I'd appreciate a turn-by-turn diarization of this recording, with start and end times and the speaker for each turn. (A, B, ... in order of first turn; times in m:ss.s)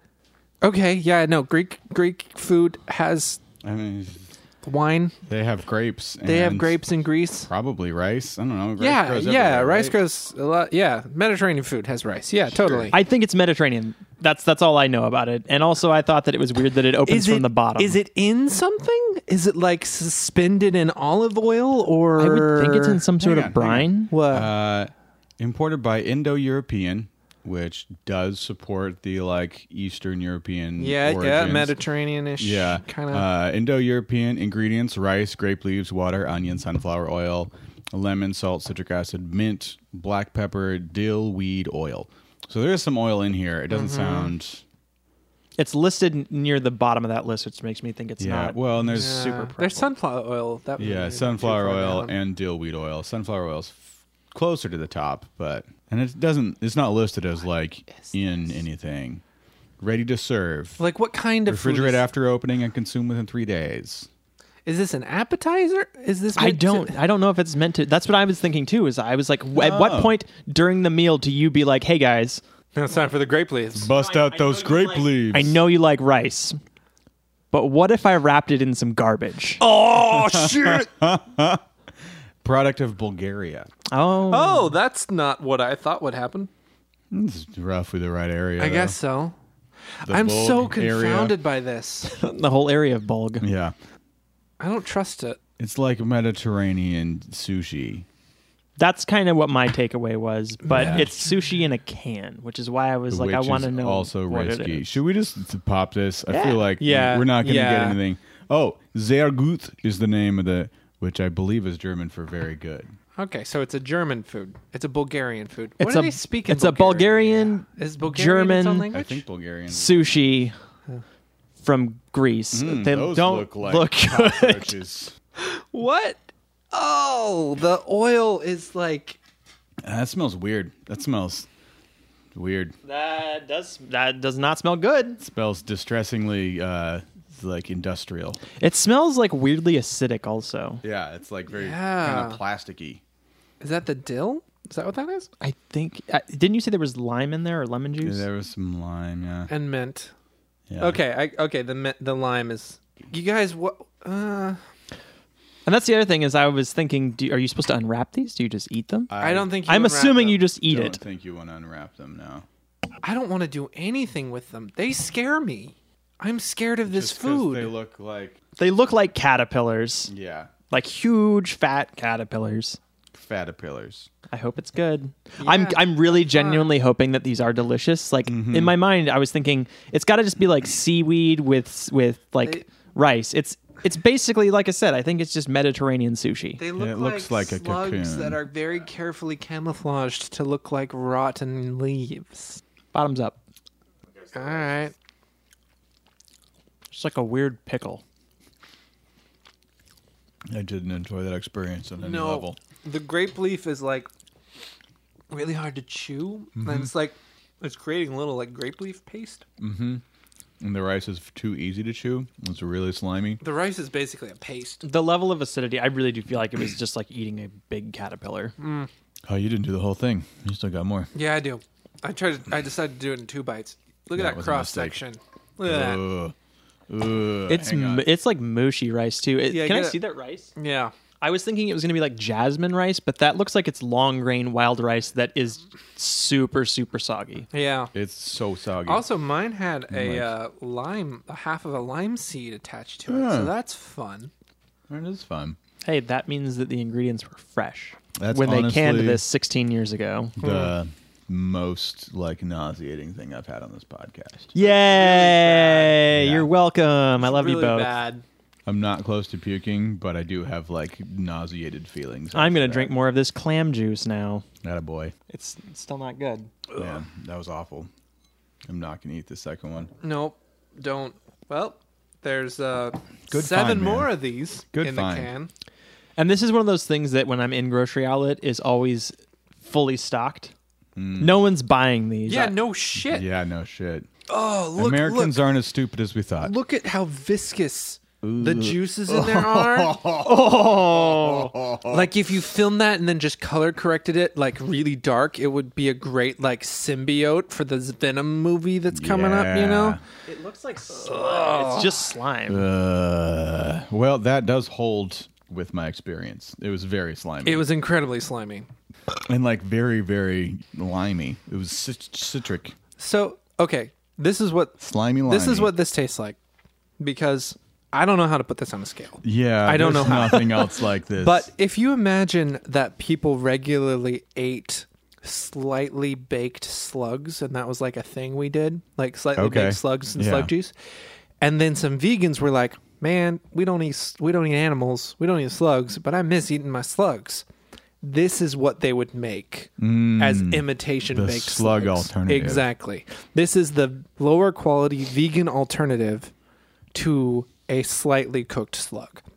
0:00.6-0:03.4 A
0:03.6-0:04.3 B
0:04.6-0:05.2 A
0:05.3-0:06.8 B
0:06.2-0:07.5 A
0:07.4-0:10.0 B
0:08.8-0:12.9 A
0:12.5-0:12.9 B
0:12.9-0:18.0 C
0:17.0-0:23.0 A
0:22.2-0:24.1 C
0:23.2-0:31.8 B
0:24.1-0:24.5 A
0:30.8-0:33.2 A
0:32.4-0:44.6 B
0:43.7-0:44.3 A
0:45.6-0:49.9 C
0:48.2-0:49.5 B
0:48.8-0:52.1 A
0:50.8-0:59.2 B
0:59.8-1:00.8 B
1:00.8-1:02.0 A
1:01.4-1:04.1 B
1:04.6-1:07.0 A
1:06.4-1:12.4 C
1:09.5-1:10.1 B
1:12.7-1:13.9 A
1:13.7-1:15.6 B
1:13.9-1:16.6 C
1:17.5-1:19.6 C
1:19.6-1:20.9 A
1:19.9-1:21.6 B
1:22.4-1:23.7 B
1:23.9-1:24.7 C
1:24.3-1:26.5 A
1:27.1-1:29.0 B
1:28.6-1:29.3 A
1:30.0-1:32.1 A
1:30.0-1:31.4 B
1:32.0-1:33.4 C
1:33.4-1:33.7 B
1:34.6-1:35.4 A
1:35.6-1:38.0 B
1:38.8-1:45.0 C
1:40.6-1:41.1 A
1:40.7-1:41.1 B
1:43.1-1:52.9 B
1:46.3-1:46.6 C
1:46.8-1:48.0 A
1:53.2-1:59.2 A
1:55.8-1:58.9 C
1:58.9-2:00.2 B
1:59.7-2:00.5 C
2:01.6-2:04.7 C
2:02.5-2:05.1 B
2:05.4-2:09.2 A
2:09.8-2:11.5 B
2:12.3-2:12.7 B
2:12.8-2:15.2 C
2:15.2-2:18.4 B
2:18.6-2:20.8 C
2:20.8-2:23.0 B
2:21.5-2:22.4 A
2:23.6-2:25.3 A
2:25.4-2:28.2 C
2:28.0-2:29.5 B
2:29.5-2:30.1 A
2:30.7-2:31.0 B
2:30.8-2:34.6 A
2:35.6-2:39.1 C
2:39.1-2:39.6 B
2:39.2-2:40.4 A
2:39.6-2:41.0 C
2:40.6-2:42.4 B
2:43.0-2:47.7 A
2:46.9-2:48.4 B
2:48.6-2:50.1 C
2:50.1-2:50.5 B
2:50.7-2:52.8 C
2:53.1-2:54.1 B
2:54.3-3:06.6 C
2:55.4-2:56.7 A
2:58.2-2:58.8 B
3:06.6-3:12.6 A
3:06.7-3:08.4 B
3:12.9-3:13.4 C
3:14.3-3:14.9 A
3:16.9-3:18.0 C
3:20.5-3:22.6 B
3:22.0-3:24.1 A
3:25.3-3:29.4 A
3:26.6-3:26.9 B
3:29.6-3:30.0 B
3:30.6-3:33.4 B
3:33.4-3:34.8 A
3:34.8-3:38.5 C
3:38.6-3:38.9 A
3:39.2-3:41.1 B
3:41.1-3:46.0 A
3:44.1-3:45.0 B
3:45.6-3:46.3 B
3:46.9-3:48.0 B
3:47.5-3:50.5 C
3:49.5-3:50.0 A
3:50.6-3:50.9 A
3:51.2-3:57.5 C
3:57.5-3:57.9 A
3:57.9-3:59.0 B
3:58.9-4:04.3 A
3:59.9-4:00.3 B
4:03.1-4:03.5 B
4:04.9-4:05.6 B
4:05.8-4:10.3 C
4:08.2-4:09.2 B
4:10.4-4:14.5 B
4:10.4-4:10.7 A
4:14.5-4:17.9 C
4:14.6-4:16.0 A
4:16.1-4:16.5 B
4:17.2-4:18.2 A
4:18.6-4:22.9 B
4:22.3-4:24.4 C
4:24.6-4:25.1 B
4:25.3-4:26.5 C
4:26.8-4:27.9 B
4:28.7-4:29.9 B
4:30.0-4:35.5 A
4:33.3-4:34.1 B
4:34.7-4:35.3 B
4:36.2-4:40.5 C
4:41.0-4:41.4 B
4:41.2-4:42.5 C
4:42.3-4:43.2 A
4:43.1-4:44.1 B
4:44.3-4:45.4 A
4:44.8-4:46.5 B
4:46.4-4:50.0 A
4:48.2-4:52.1 B
4:50.1-4:51.5 C
4:51.8-5:00.0 A
4:58.9-5:00.0 B
5:00.2-5:02.6 C
5:00.9-5:02.1 A
5:02.5-5:07.6 B
5:07.4-5:08.7 A
5:09.3-5:12.7 B
5:13.0-5:16.4 A
5:14.8-5:15.7 B
5:17.0-5:30.7 A
5:19.2-5:21.5 B
5:29.4-5:30.5 B
5:31.4-5:37.4 A
5:38.0-5:46.3 A
5:39.8-5:42.6 B
5:46.9-5:49.2 A